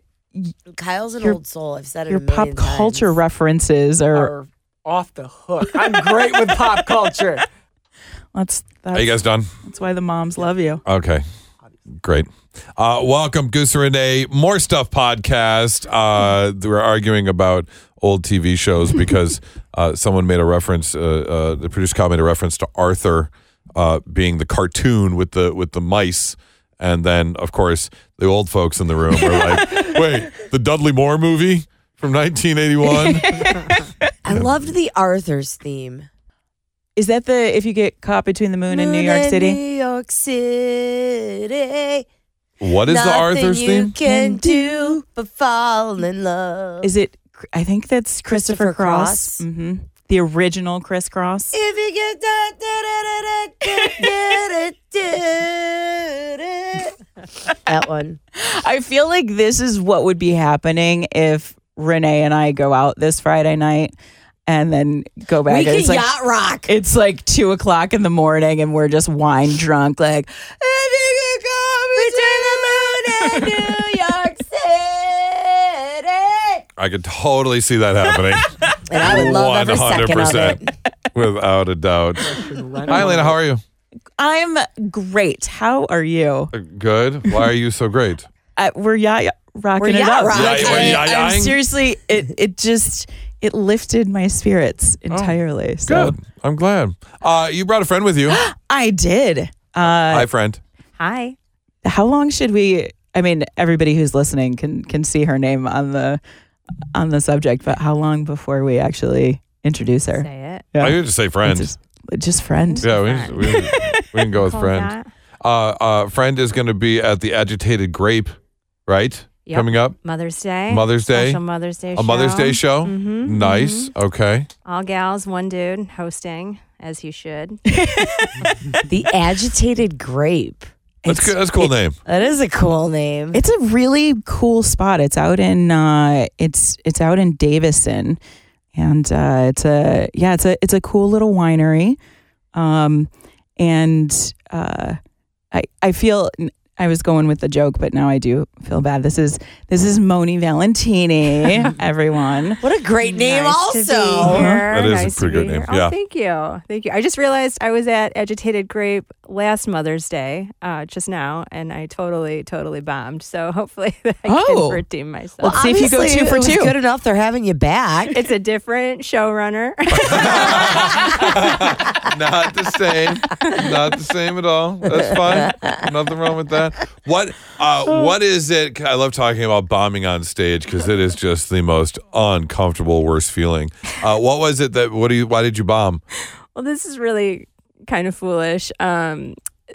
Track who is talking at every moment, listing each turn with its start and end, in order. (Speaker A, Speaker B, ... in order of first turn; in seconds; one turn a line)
Speaker A: 0.7-3.1
Speaker B: 2.1-4.3
Speaker C: 4.1-7.5
Speaker B: 8.3-10.8
Speaker D: 8.9-9.5
Speaker D: 10.8-11.2
Speaker D: 12.0-33.7
Speaker B: 29.2-29.9
Speaker B: 33.0-33.5
Speaker A: 34.2-36.1
Speaker B: 37.0-39.6
Speaker A: 38.7-42.0
Speaker D: 42.6-43.9
Speaker A: 42.8-46.9
Speaker B: 44.0-45.0
Speaker B: 46.8-51.5
Speaker A: 48.3-49.4
Speaker A: 51.5-56.9
Speaker B: 53.7-54.2
Speaker A: 57.6-58.2
Speaker B: 58.4-63.9
Speaker B: 64.5-66.1
Speaker A: 65.5-66.7
Speaker B: 66.7-70.8
Speaker A: 70.8-76.6
Speaker B: 71.9-73.7
Speaker D: 76.8-80.6
Speaker A: 78.7-80.7
Speaker D: 81.1-82.2
Speaker C: 82.2-83.4
Speaker D: 82.9-83.6
Speaker B: 84.2-86.5
Speaker D: 86.5-88.3
Speaker B: 88.5-96.2
Speaker A: 89.8-91.2
Speaker D: 90.3-91.6
Speaker D: 95.1-98.4
Speaker B: 98.3-100.3
Speaker D: 99.9-100.6
Speaker E: 101.0-101.3
Speaker B: 101.8-106.2
Speaker B: 106.9-114.0
Speaker E: 110.1-110.7
Speaker D: 110.8-111.7
Speaker E: 112.8-113.7
Speaker D: 112.8-120.0
Speaker E: 114.3-115.1
Speaker E: 119.4-123.9
Speaker D: 120.7-121.4
Speaker D: 121.9-124.5
Speaker E: 124.6-127.7
Speaker B: 127.7-128.8
Speaker A: 128.9-130.7
Speaker B: 131.0-131.7
Speaker D: 131.1-132.0
Speaker A: 132.0-133.4
Speaker B: 133.3-138.2
Speaker B: 138.7-142.0
Speaker B: 142.5-145.0
Speaker B: 145.5-152.6
Speaker A: 152.6-154.6
Speaker E: 153.0-165.6
Speaker B: 154.2-154.6
Speaker D: 154.7-155.9
Speaker B: 164.2-164.8
Speaker B: 165.4-166.7
Speaker A: 165.4-168.2
Speaker E: 168.1-171.4
Speaker D: 169.9-186.0
Speaker E: 173.3-173.6
Speaker A: 175.5-175.8
Speaker E: 186.5-189.4